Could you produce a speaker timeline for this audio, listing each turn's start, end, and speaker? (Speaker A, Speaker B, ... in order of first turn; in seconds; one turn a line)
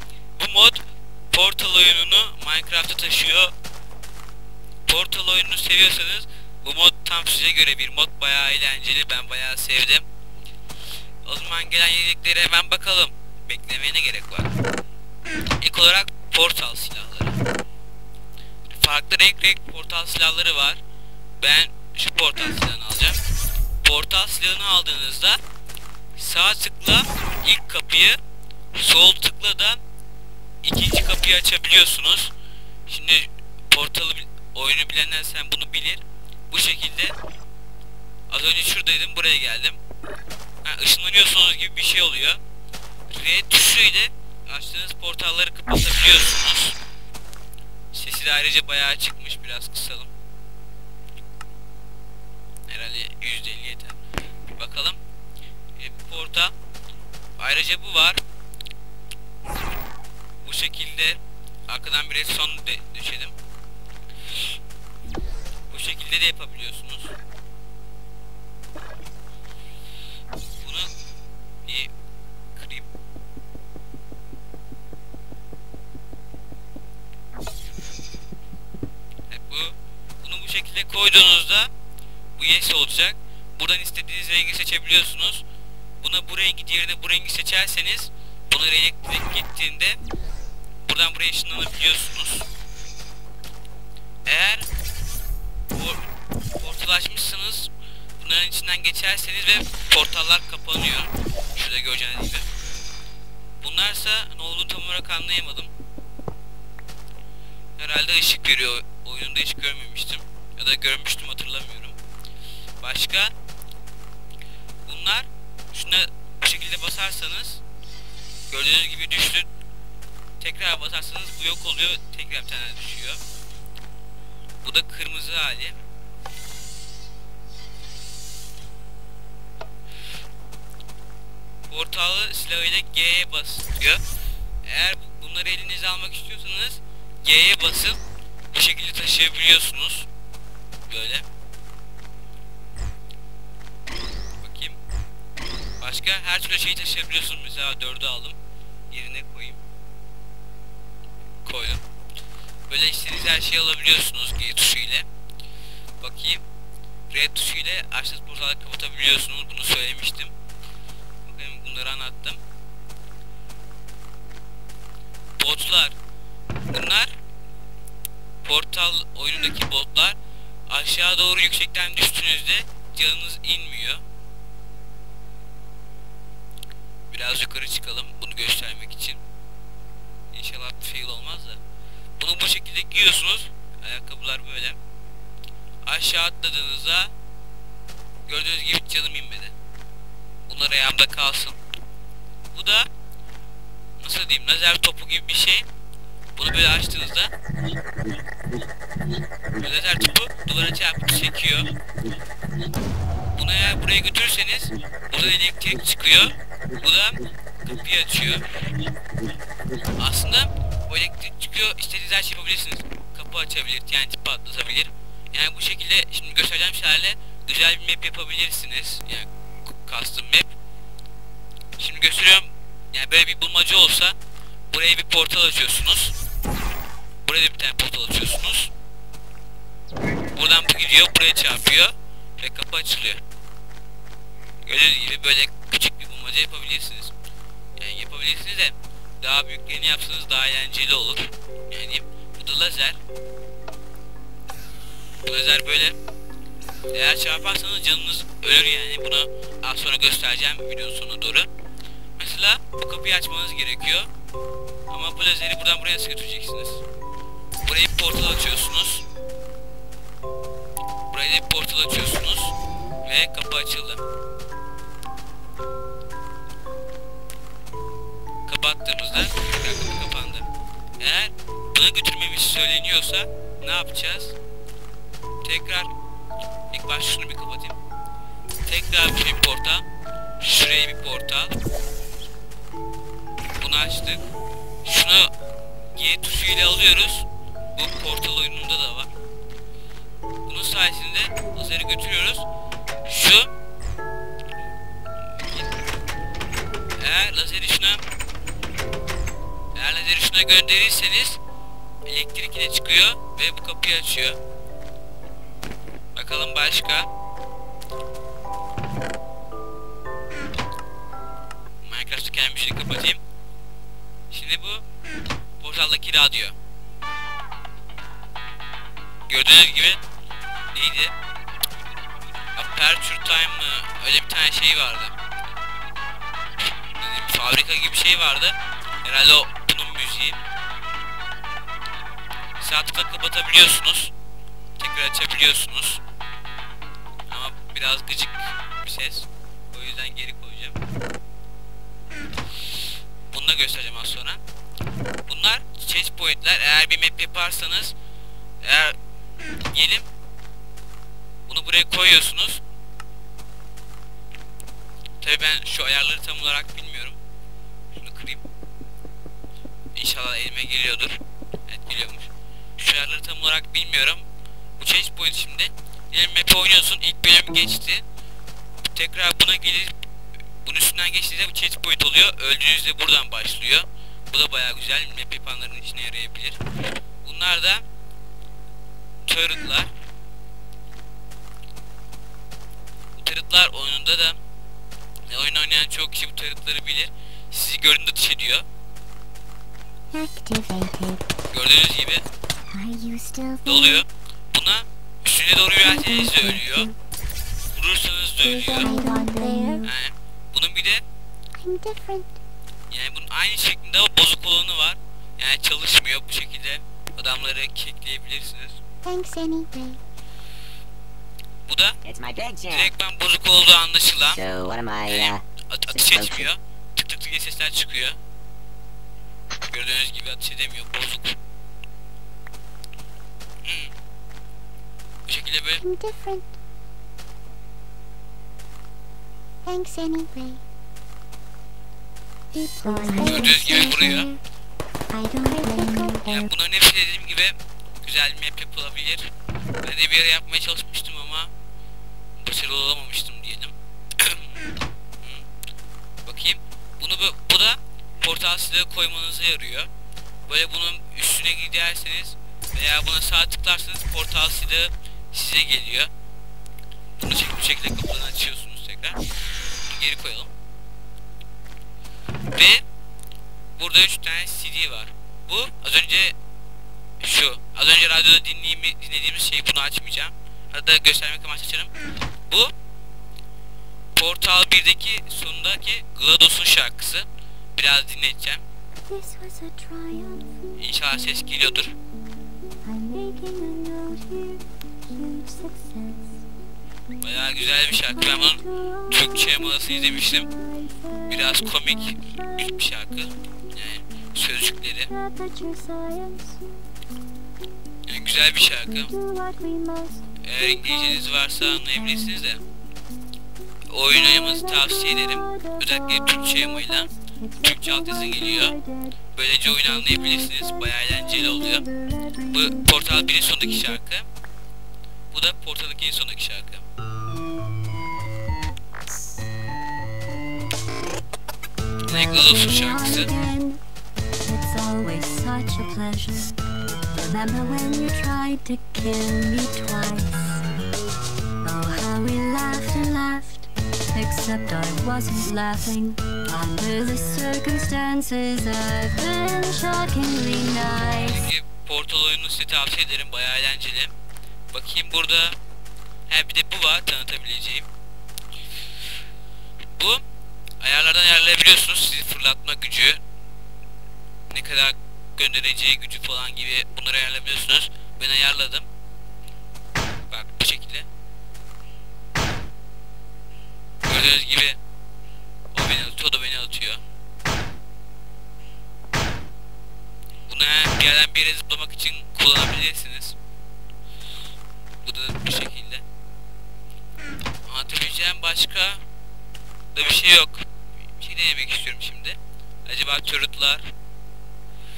Speaker A: 0.4-3.5
Speaker A: 4.9-10.1
Speaker A: 11.2-14.5
Speaker A: 15.6-17.4
Speaker A: 18.7-20.8
Speaker A: 21.4-23.2
Speaker A: 23.8-25.4
Speaker A: 26.2-28.2
Speaker A: 28.7-29.8
Speaker A: 30.6-32.3
Speaker A: 32.9-37.2
Speaker A: 38.3-39.8
Speaker A: 40.6-42.4
Speaker A: 43.1-46.8
Speaker A: 47.9-50.1
Speaker A: 52.7-54.0
Speaker A: 54.6-55.0
Speaker A: 55.8-56.5
Speaker A: 57.4-58.2
Speaker A: 60.4-63.4
Speaker A: 65.7-67.2
Speaker A: 70.6-70.9
Speaker A: 71.7-71.9
Speaker A: 72.6-72.9
Speaker A: 79.3-81.7
Speaker A: 82.4-85.4
Speaker A: 86.0-90.0
Speaker A: 90.8-92.5
Speaker A: 94.3-94.7
Speaker A: 95.7-96.0
Speaker A: 96.6-102.5
Speaker A: 103.6-105.7
Speaker A: 107.8-112.0
Speaker A: 112.8-113.3
Speaker A: 114.9-117.6
Speaker A: 118.5-119.5
Speaker A: 120.4-123.2
Speaker A: 124.6-125.8
Speaker A: 131.7-134.0
Speaker A: 134.7-138.0
Speaker A: 138.5-140.1
Speaker A: 140.9-141.3
Speaker A: 144.4-144.8
Speaker A: 145.8-148.4
Speaker A: 148.9-149.6
Speaker A: 151.4-151.8
Speaker A: 152.7-155.1
Speaker A: 156.0-156.4
Speaker A: 157.1-160.3
Speaker A: 161.2-162.4
Speaker A: 165.4-166.0
Speaker A: 166.7-167.1
Speaker A: 168.4-174.0
Speaker A: 177.1-179.2
Speaker A: 180.3-181.6
Speaker A: 182.2-184.8
Speaker A: 185.8-187.1
Speaker A: 188.3-189.5
Speaker A: 190.5-191.6
Speaker A: 192.5-192.9
Speaker A: 194.0-195.7
Speaker A: 196.4-197.3
Speaker A: 199.5-201.8
Speaker A: 203.3-208.5
Speaker A: 210.0-220.5
Speaker A: 221.8-224.2
Speaker A: 224.7-226.2
Speaker A: 227.2-228.7
Speaker A: 230.3-233.2
Speaker A: 234.7-237.1
Speaker A: 237.8-243.0
Speaker A: 245.2-246.0
Speaker A: 246.9-251.5
Speaker A: 252.2-254.1
Speaker A: 254.9-256.8
Speaker A: 257.6-259.0
Speaker A: 261.1-264.0
Speaker A: 268.5-270.5
Speaker A: 271.0-274.4
Speaker A: 275.4-275.9
Speaker A: 276.7-277.8
Speaker A: 278.6-279.9
Speaker A: 280.4-281.6
Speaker A: 283.6-284.3
Speaker A: 284.9-285.3
Speaker A: 285.9-289.1
Speaker A: 290.5-292.5
Speaker A: 293.1-293.5
Speaker A: 295.4-295.7
Speaker A: 297.0-298.1
Speaker A: 299.8-301.4
Speaker A: 302.1-304.4
Speaker A: 306.1-307.1
Speaker A: 311.8-313.2
Speaker A: 314.3-314.9
Speaker A: 315.6-316.6
Speaker A: 319.3-320.0
Speaker A: 320.7-321.1
Speaker A: 322.6-325.2
Speaker A: 327.0-330.4
Speaker A: 332.6-334.1
Speaker A: 334.8-336.0
Speaker A: 337.3-340.8
Speaker A: 343.3-344.4
Speaker A: 345.3-347.9
Speaker A: 348.6-349.0
Speaker A: 349.7-350.1
Speaker A: 351.5-352.6
Speaker A: 355.2-357.2
Speaker A: 357.9-358.4
Speaker A: 359.9-364.3
Speaker A: 364.8-368.0
Speaker A: 368.9-369.9
Speaker A: 370.6-376.6
Speaker A: 377.2-377.8
Speaker A: 379.2-379.9
Speaker A: 383.1-384.4
Speaker A: 385.3-388.6
Speaker B: 390.1-391.2
Speaker A: 391.5-392.3
Speaker B: 392.7-394.0
Speaker A: 393.6-396.9
Speaker B: 396.1-396.9
Speaker A: 397.7-398.9
Speaker B: 398.7-399.9
Speaker C: 398.9-399.8
Speaker A: 399.8-401.0
Speaker B: 401.6-402.4
Speaker A: 402.9-408.8
Speaker B: 409.0-410.0
Speaker A: 411.7-412.0
Speaker D: 412.1-412.9
Speaker A: 412.7-414.4
Speaker D: 414.3-416.5
Speaker A: 415.1-418.2
Speaker A: 419.6-421.4
Speaker A: 423.6-423.9
Speaker A: 425.3-425.8
Speaker B: 425.8-426.6
Speaker B: 429.6-430.6
Speaker B: 432.6-434.4
Speaker C: 432.8-433.7
Speaker A: 433.2-434.3
Speaker B: 435.1-436.4
Speaker C: 435.4-436.2
Speaker A: 436.2-439.3
Speaker A: 439.8-441.5
Speaker A: 442.4-444.6
Speaker A: 446.2-449.9
Speaker A: 450.5-456.1
Speaker A: 457.2-459.2
Speaker A: 459.9-460.5
Speaker A: 462.6-462.8
Speaker A: 463.8-466.4
Speaker A: 467.2-471.9
Speaker A: 474.1-478.6
Speaker B: 479.1-480.7
Speaker A: 480.8-482.0
Speaker B: 483.1-486.4
Speaker A: 487.2-490.5
Speaker A: 491.3-495.1
Speaker B: 495.1-496.0
Speaker A: 498.1-499.1
Speaker A: 500.4-502.6
Speaker A: 503.9-508.8
Speaker C: 508.8-509.2
Speaker A: 509.3-511.9
Speaker A: 512.5-514.3
Speaker A: 515.3-516.9
Speaker A: 522.1-523.3
Speaker C: 522.4-523.8
Speaker C: 524.5-526.5
Speaker C: 527.1-530.7
Speaker C: 531.6-541.5
Speaker A: 541.2-544.1
Speaker A: 544.7-545.6
Speaker A: 546.3-547.9
Speaker A: 550.0-550.2
Speaker A: 550.8-553.2
Speaker A: 554.5-558.9
Speaker A: 560.3-561.1
Speaker A: 564.0-564.8
Speaker A: 565.7-567.0
Speaker A: 570.5-573.4
Speaker A: 575.0-576.0
Speaker A: 577.7-579.0
Speaker A: 579.9-583.9